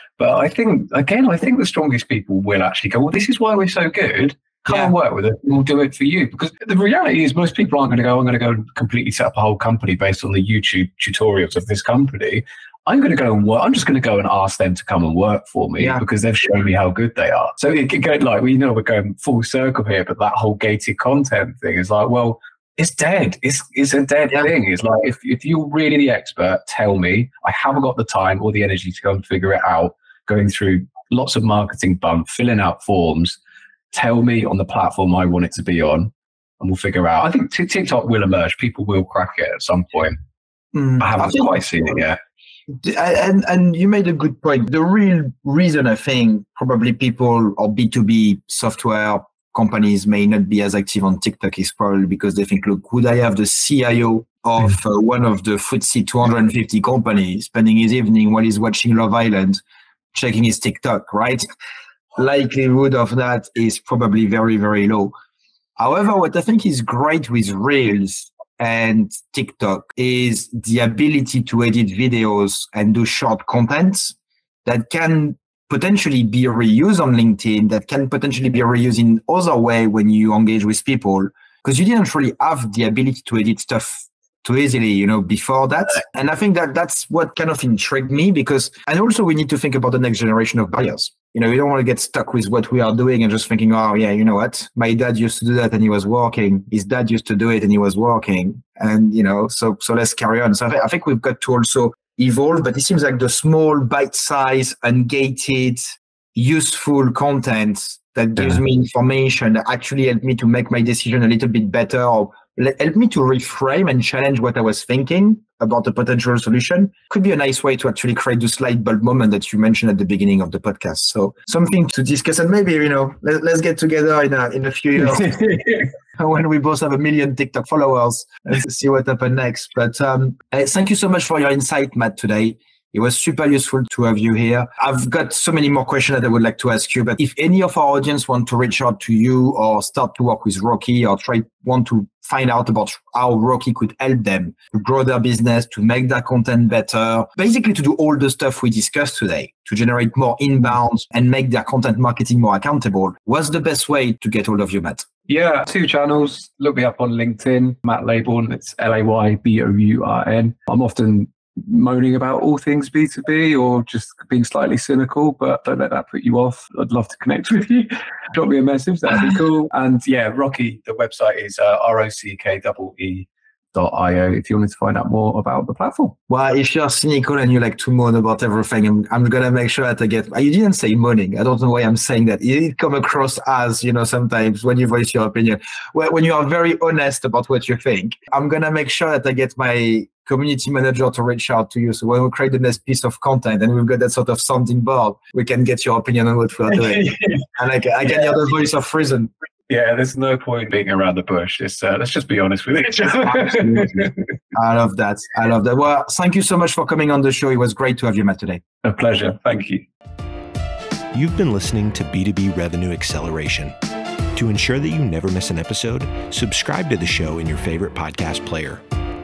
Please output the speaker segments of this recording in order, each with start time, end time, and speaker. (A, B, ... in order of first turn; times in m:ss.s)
0:00.2-0:33.4 A
0:04.7-0:04.9 B
0:33.9-0:40.2 A
0:40.7-0:41.5 B
0:41.0-0:42.2 A
0:42.7-0:59.6 B
1:00.1-1:01.4 B
1:02.2-1:05.1 B
1:05.8-2:05.3 B
2:05.1-2:05.9 A
2:06.2-2:35.0 B
2:35.3-2:56.1 A
2:56.3-3:19.3 B
3:16.8-3:17.4 A
3:19.7-3:24.2 A
3:23.2-3:28.6 B
3:28.8-3:29.8 A
3:31.1-3:33.7 C
3:34.3-3:38.8 C